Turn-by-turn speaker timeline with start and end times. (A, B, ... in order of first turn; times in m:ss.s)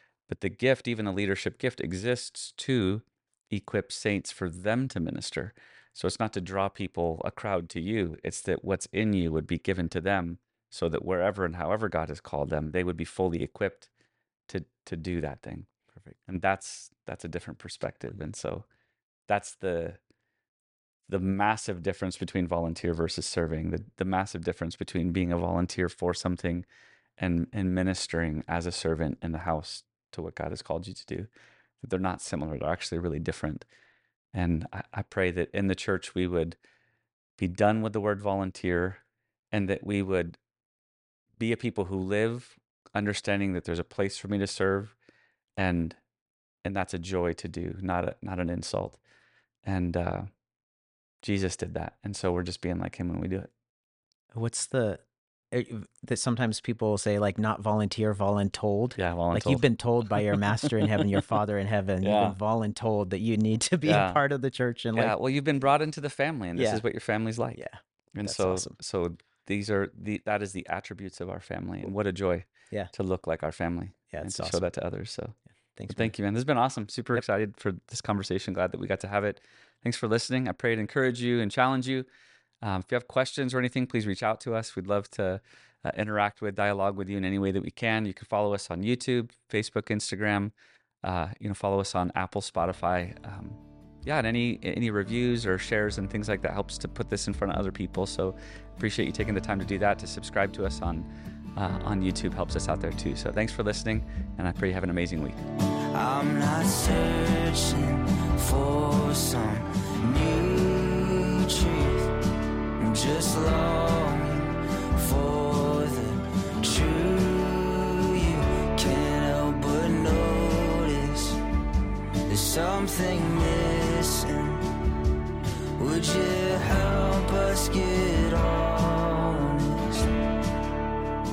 0:00.3-0:13.9 A
0:14.5-0:15.7 A
0:16.3-0:18.6 A
0:19.3-0:20.0 A
0:21.1-0:26.6 A
0:27.2-0:31.3 A
0:31.8-0:33.6 A
0:34.3-0:36.6 A
0:37.4-0:40.4 A
0:41.4-0:44.9 A
0:45.6-0:46.0 A
0:46.6-0:49.0 A
0:49.6-0:50.3 A
0:51.2-0:53.5 A
0:54.3-1:05.1 B
0:59.0-0:59.6 A
1:00.6-1:01.2 A
1:02.0-1:02.4 A
1:03.8-1:04.2 A
1:04.9-1:07.6 A
1:06.5-1:06.8 B
1:07.5-1:08.7 B
1:08.1-1:15.4 A
1:14.1-1:14.6 B
1:15.8-1:16.1 B
1:15.9-1:22.1 A
1:22.6-1:30.5 A
1:31.0-1:45.4 A
1:45.9-1:52.1 C
1:52.8-2:01.4 C
2:02.2-2:04.7 C
2:05.8-2:10.1 C